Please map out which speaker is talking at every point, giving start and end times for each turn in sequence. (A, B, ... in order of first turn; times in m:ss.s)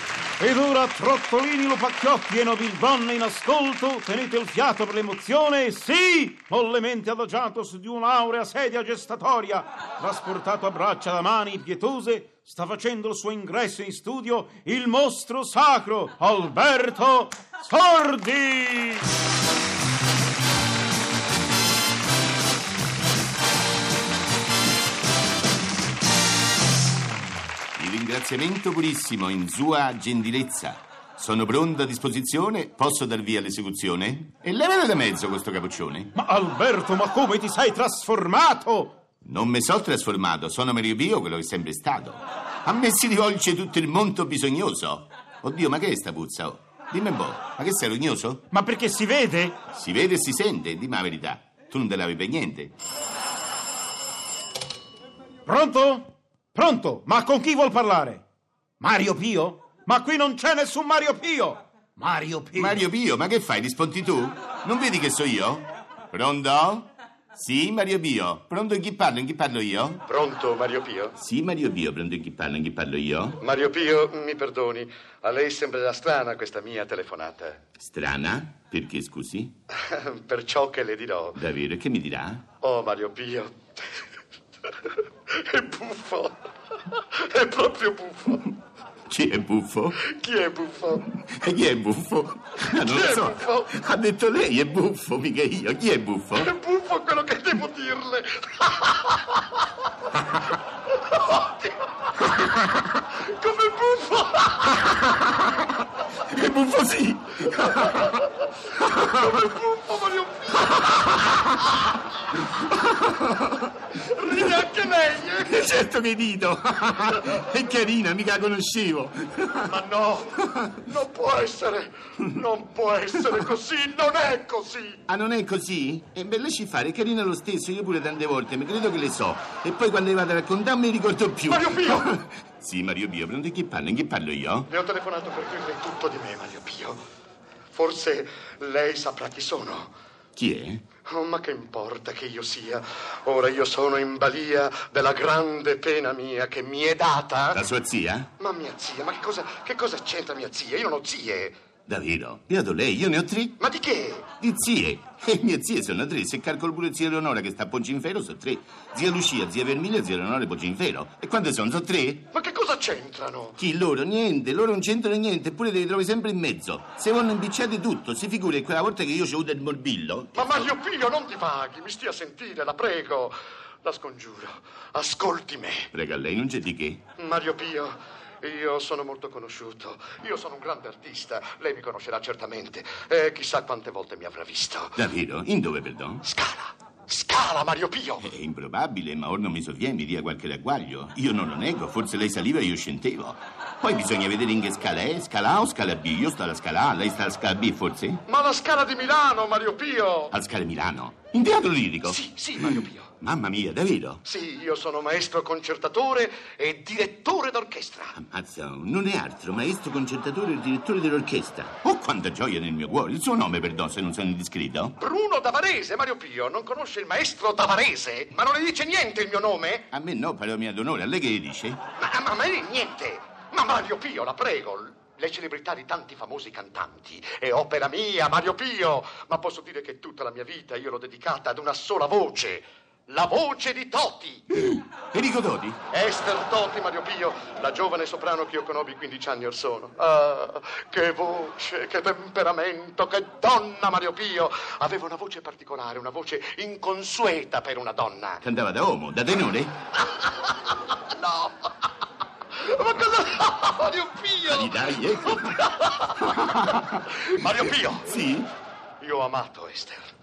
0:00.4-0:19.1 A
0:27.8-0:36.1 B
0:36.1-0:39.0 A
0:39.2-0:48.4 B
0:48.5-0:49.6 A
0:49.7-0:52.7 B
0:55.5-0:58.2 A
0:58.8-1:02.8 A
1:02.6-1:10.0 B
1:10.0-1:11.2 C
1:11.2-1:13.4 B
1:13.4-1:17.6 C
1:17.8-1:19.5 B
1:19.7-1:21.4 C
1:21.3-1:22.4 B
1:22.6-1:23.6 C
1:25.3-1:26.4 C
1:26.9-1:28.5 C
1:29.1-1:30.0 B
1:30.0-1:31.1 C
1:31.1-1:36.5 B
1:32.8-1:33.7 C
1:36.4-1:39.2 C
1:41.1-1:41.4 C
1:43.2-1:44.9 C
1:46.2-1:48.0 B
1:49.0-1:51.3 C
1:52.6-1:53.7 B
1:53.9-1:55.7 C
1:55.4-1:59.7 B
1:59.7-2:05.0 C
2:00.5-2:00.8 B
2:05.1-2:14.7 B
2:11.5-2:12.2 C
2:14.7-2:17.0 C
2:17.7-2:19.9 C
2:20.4-2:20.8 B
2:21.0-2:27.6 C
2:27.5-2:28.3 B
2:28.4-2:31.5 C
2:31.9-2:33.5 B
2:33.6-2:34.3 C
2:34.4-2:42.3 B
2:42.3-2:43.6 C
2:43.6-2:50.7 B
2:50.3-2:55.9 C
2:55.9-2:57.0 B
2:57.2-3:05.0 C
3:05.0-3:06.2 B
3:06.2-3:08.3 C
3:08.2-3:18.2 B
3:18.2-3:20.3 C
3:20.3-3:24.2 B
3:22.0-3:23.1 C
3:24.2-3:28.2 C
3:28.2-3:35.0 B
3:35.0-3:39.9 C
3:39.9-3:41.8 B
3:42.0-3:54.5 C
3:54.5-3:55.8 B
3:55.9-4:08.4 C
4:08.4-4:09.7 B
4:10.2-4:11.6 C
4:12.6-4:18.2 C
4:14.5-4:15.6 B
4:16.2-4:17.0 B
4:18.0-4:18.5 B
4:19.0-4:20.1 C